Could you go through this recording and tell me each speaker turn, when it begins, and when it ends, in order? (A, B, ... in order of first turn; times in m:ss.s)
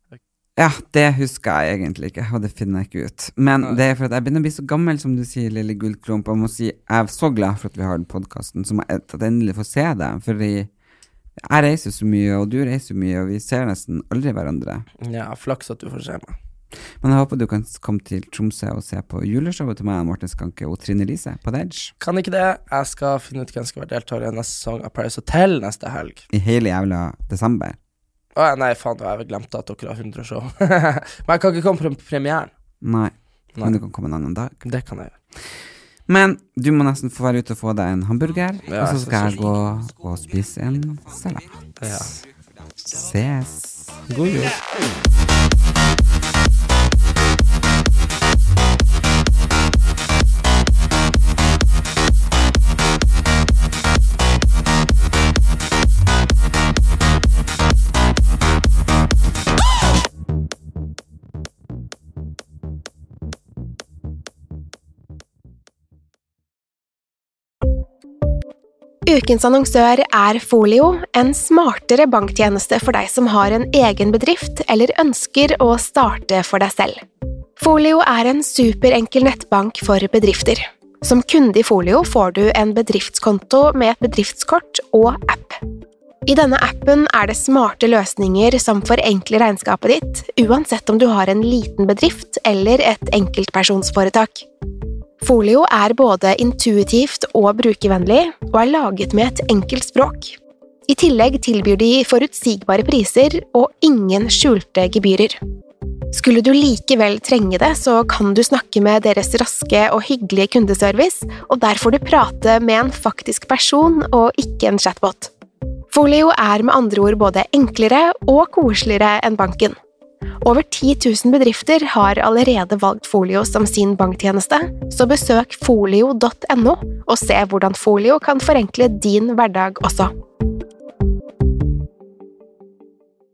0:00.6-0:10.7 A
0:11.4-0:14.9 A
0:15.0-0:16.4 B
0:17.0-0:21.9 A
0:22.0-0:26.2 B
0:26.3-0:27.8 A
0:28.4-0:32.5 B
0:32.8-0:34.6 A
0:34.6-0:35.1 B
0:36.1-0:42.1 A
0:38.7-0:39.5 B
0:41.8-0:42.1 B
0:42.8-0:44.0 A
0:44.1-0:44.6 B
1:09.1-1:17.0 C
1:17.6-1:25.6 C
1:26.3-1:34.5 C
1:35.2-1:40.4 C
1:40.9-1:45.4 C
1:46.1-1:55.3 C
1:55.9-1:59.8 C
2:00.4-2:10.1 C